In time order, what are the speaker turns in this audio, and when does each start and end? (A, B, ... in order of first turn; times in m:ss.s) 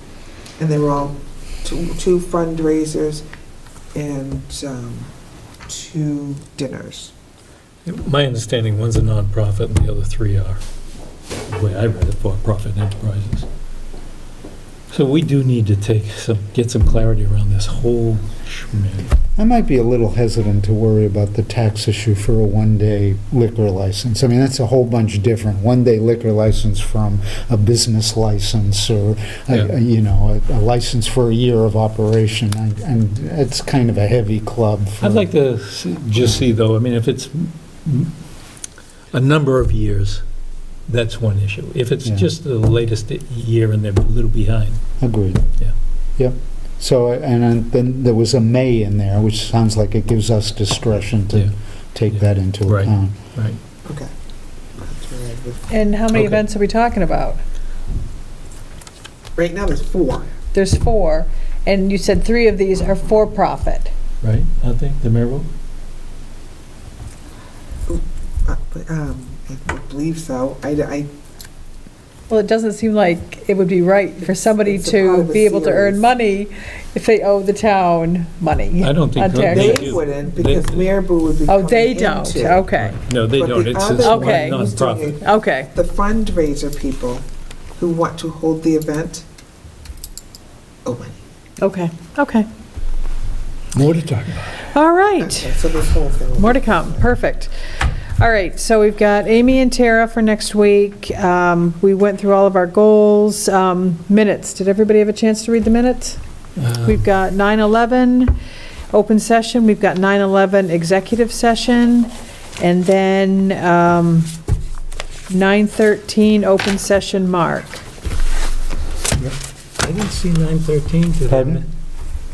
0:00.6-0:03.2 A
0:03.9-0:05.1 A
0:05.7-0:07.1 A
0:07.8-0:10.6 B
0:11.5-0:13.4 B
0:14.9-0:19.1 B
0:19.4-0:35.3 C
0:35.0-0:38.1 B
0:39.1-0:40.2 B
0:40.9-0:44.8 B
0:45.0-0:45.4 C
0:46.2-0:53.2 C
0:52.1-0:53.6 B
0:53.8-0:54.1 A
0:54.8-0:55.7 A
0:55.7-0:57.4 D
0:56.1-0:56.4 B
0:59.4-1:00.3 A
1:00.5-1:03.9 D
1:04.2-1:05.5 B
1:07.9-1:11.1 A
1:12.3-1:19.8 D
1:14.2-1:16.0 A
1:18.8-1:20.9 B
1:19.4-1:22.7 A
1:21.4-1:23.0 D
1:22.8-1:25.2 B
1:23.2-1:27.2 A
1:24.0-1:24.5 D
1:25.2-1:25.7 D
1:27.8-1:29.2 A
1:30.8-1:31.2 A
1:31.6-1:32.5 D
1:33.7-1:34.7 B
1:34.7-1:35.5 D
1:35.2-1:37.2 A
1:36.4-1:37.5 D
1:38.2-1:46.2 D
1:46.6-1:47.0 B
1:46.8-1:48.4 D
1:48.9-1:54.3 D
1:55.3-1:57.8 D
1:59.8-2:01.7 B
2:01.3-2:01.6 C